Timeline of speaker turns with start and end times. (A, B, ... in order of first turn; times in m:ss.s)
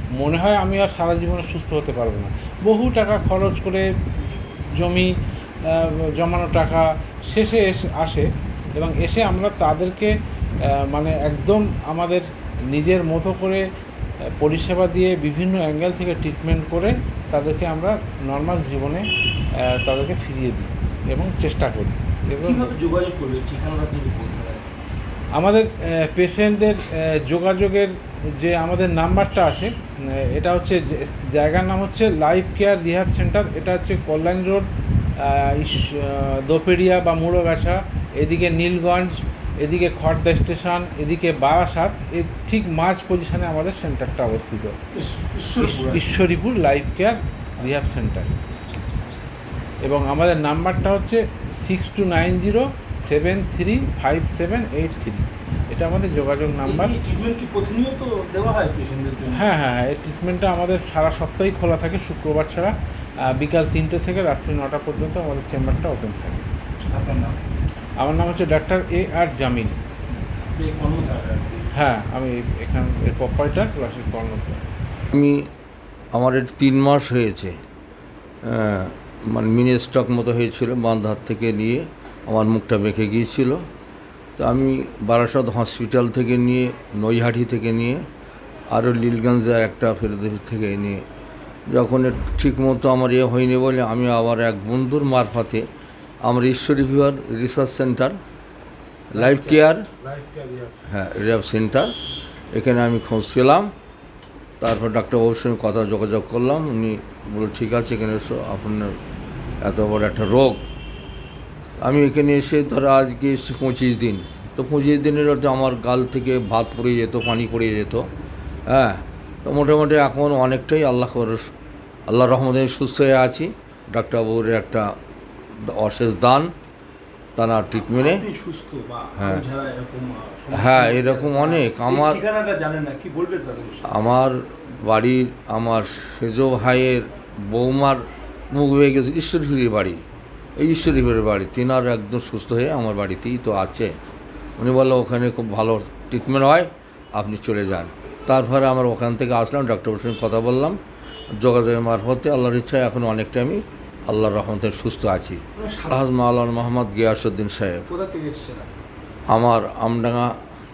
0:00.2-0:03.8 A
0:04.8-0:05.1 A
0:05.7-0:10.1 A
0:10.9-0:13.6 A
0:14.4-0:19.0 A
0:19.6-0:22.7 A
0:22.4-0:24.7 B
0:25.4-0:34.7 A
0:35.2-0:44.8 A
0:44.9-0:46.2 B
0:45.6-0:48.4 A
0:48.6-0:48.9 B
0:49.8-0:56.9 A
0:56.6-0:59.5 B
0:59.3-1:02.7 A
1:03.4-1:06.4 A
1:06.9-1:07.4 B
1:08.0-1:09.8 A
1:10.5-1:11.7 B
1:11.8-1:14.6 A
1:15.1-1:15.4 C
1:16.1-1:17.6 C
1:18.4-1:23.6 C
1:24.4-1:28.0 C
1:28.7-1:31.0 C
1:31.7-1:35.6 C
1:36.2-1:38.2 C
1:39.1-1:39.9 C
1:39.1-1:40.8 A
1:40.9-1:41.9 C
1:42.5-1:43.7 C
1:44.6-1:49.0 C
1:49.6-1:50.6 C
1:51.8-1:58.1 C
1:58.7-2:01.5 C
2:02.1-2:04.9 C
2:05.6-2:06.5 C
2:07.4-2:08.2 C
2:07.9-2:14.0 B
2:09.2-2:09.4 C
2:10.5-2:12.2 C
2:13.9-2:20.0 C
2:20.6-2:23.9 C
2:24.6-2:30.8 C
2:31.4-2:37.8 C
2:35.6-2:36.0 B
2:37.9-2:38.7 B
2:39.3-2:40.3 C